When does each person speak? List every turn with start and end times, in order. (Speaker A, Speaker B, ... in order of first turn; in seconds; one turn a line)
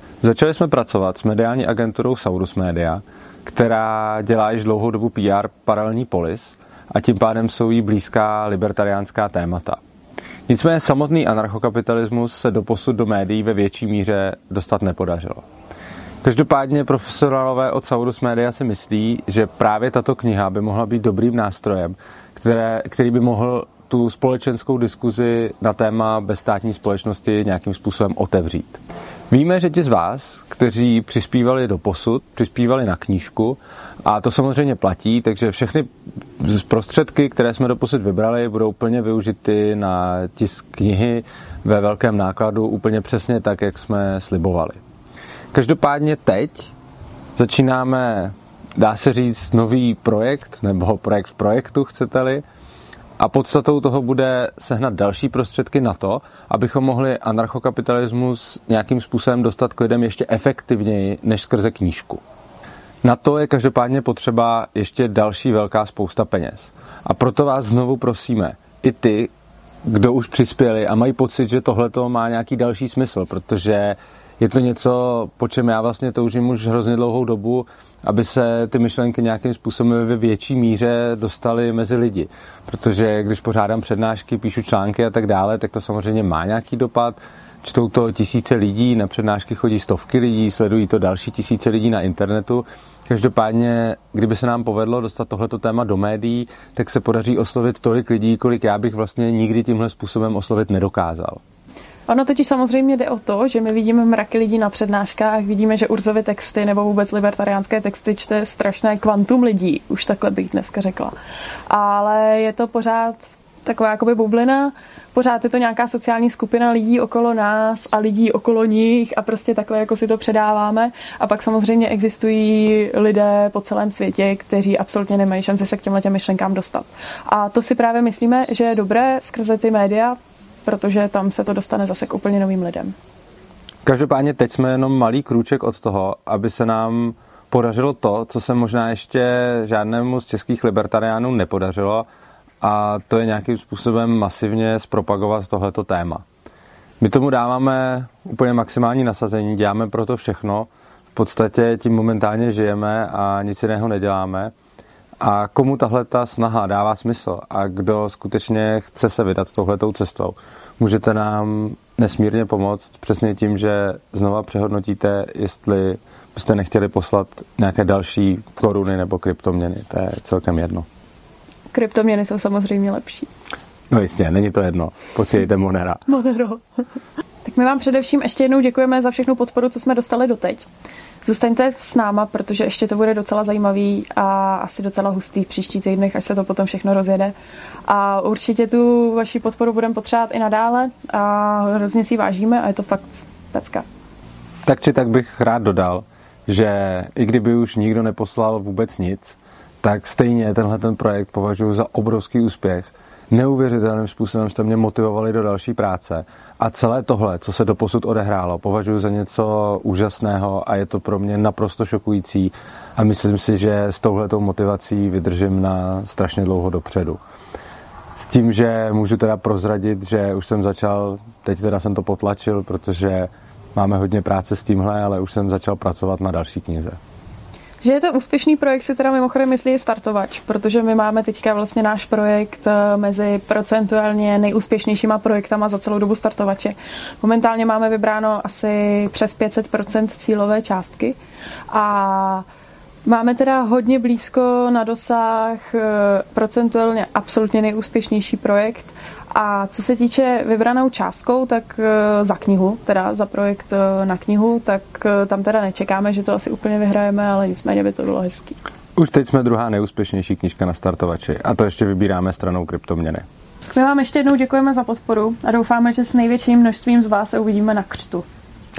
Speaker A: 0.2-9.8
Speaker A: 10.5-15.4
Speaker A: 16.2-44.8
Speaker A: 45.5-46.7
Speaker A: 47.4-52.4
Speaker A: 53.2-62.2
Speaker A: 63.0-69.3
Speaker A: 69.8-101.4
Speaker B: 102.1-111.2
Speaker B: 111.7-132.9
Speaker A: 133.8-142.1
Speaker A: 142.6-146.2
Speaker A: 147.0-154.5
Speaker A: 155.2-170.9
Speaker B: 171.7-173.3
Speaker A: 173.9-176.1
Speaker B: 176.1-176.6
Speaker B: 177.4-180.7
Speaker B: 181.2-187.3
Speaker B: 187.8-193.8
Speaker A: 194.6-217.2
Speaker A: 218.1-227.0
Speaker B: 227.8-241.2
Speaker B: 241.7-242.4
Speaker B: 243.0-258.6
Speaker A: 258.9-263.2
Speaker B: 263.7-268.3